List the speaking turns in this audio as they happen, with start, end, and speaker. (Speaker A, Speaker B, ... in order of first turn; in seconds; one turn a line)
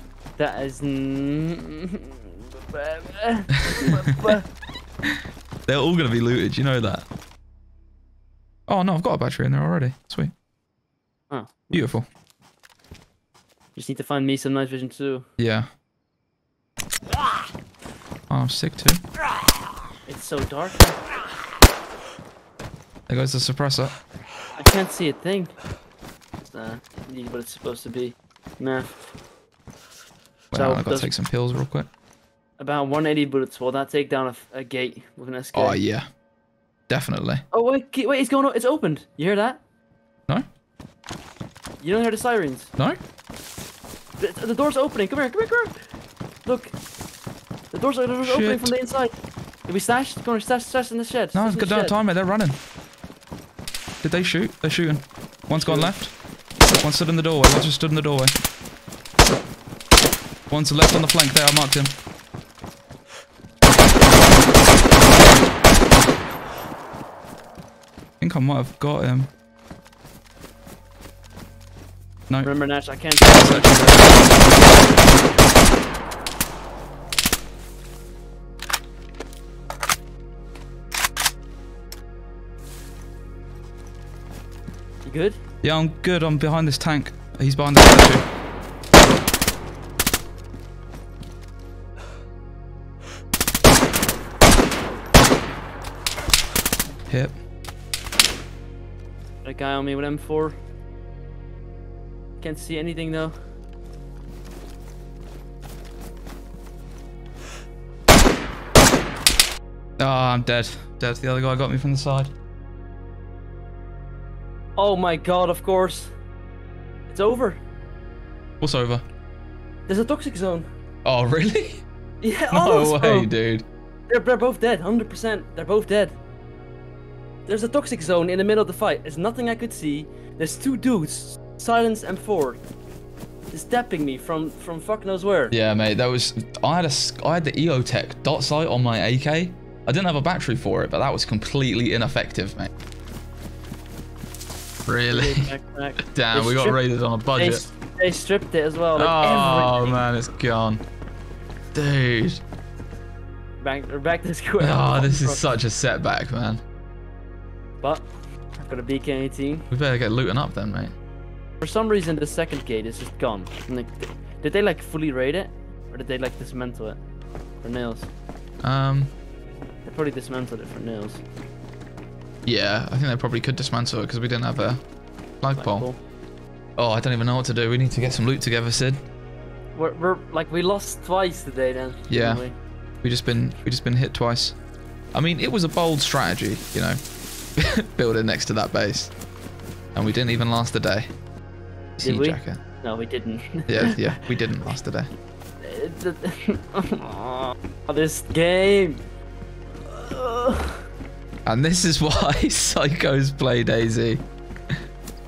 Speaker A: 0.4-4.5
Speaker B: 3.5-4.4
Speaker B: 5.0-7.1
Speaker B: 8.7-10.3
Speaker A: 11.3-11.7
Speaker B: 11.7-12.1
Speaker A: 13.8-15.2
Speaker B: 15.4-15.7
Speaker B: 18.3-19.0
Speaker A: 20.1-21.0
Speaker B: 23.1-24.0
Speaker A: 24.6-25.5
Speaker A: 26.4-28.9
Speaker B: 30.5-31.9
Speaker A: 30.5-31.1
Speaker A: 32.6-35.8
Speaker B: 35.5-36.1
Speaker B: 36.9-37.4
Speaker A: 37.5-39.6
Speaker A: 41.8-42.7
Speaker A: 44.2-45.7
Speaker A: 46.4-46.7
Speaker A: 47.7-52.0
Speaker B: 48.2-48.7
Speaker B: 51.3-52.6
Speaker B: 54.0-56.1
Speaker A: 55.5-55.9
Speaker B: 56.8-58.3
Speaker B: 60.5-61.9
Speaker B: 68.2-69.3
Speaker A: 72.4-74.3
Speaker B: 73.2-74.6
Speaker A: 85.0-85.4
Speaker B: 85.6-88.3
Speaker B: 97.1-97.3
Speaker A: 99.4-100.6
Speaker A: 102.4-103.3
Speaker B: 110.0-112.3
Speaker A: 114.8-116.1
Speaker A: 117.1-117.6
Speaker B: 118.6-119.0
Speaker A: 119.9-120.7
Speaker B: 121.0-121.8
Speaker A: 122.2-123.3
Speaker B: 122.5-123.7
Speaker A: 124.1-126.2
Speaker A: 127.5-132.6
Speaker A: 133.5-135.5
Speaker B: 135.5-142.7
Speaker B: 144.9-147.7
Speaker A: 145.1-146.8
Speaker A: 147.3-150.0
Speaker B: 148.9-150.8
Speaker B: 151.7-152.4
Speaker A: 153.6-155.4
Speaker B: 154.6-156.6
Speaker A: 157.8-159.7
Speaker B: 159.7-160.9
Speaker A: 161.6-167.0
Speaker A: 167.6-168.1
Speaker B: 168.6-169.1
Speaker A: 169.8-171.2
Speaker B: 172.4-174.8
Speaker B: 175.4-175.9
Speaker A: 175.6-176.0
Speaker B: 176.8-179.0
Speaker A: 179.7-182.6
Speaker B: 182.1-182.4
Speaker B: 183.0-184.6
Speaker B: 185.1-187.0
Speaker B: 187.6-189.1
Speaker B: 189.9-191.1
Speaker B: 192.0-192.6
Speaker A: 192.0-194.2
Speaker B: 193.7-195.1
Speaker A: 195.6-199.0
Speaker A: 199.8-200.8
Speaker B: 201.4-204.2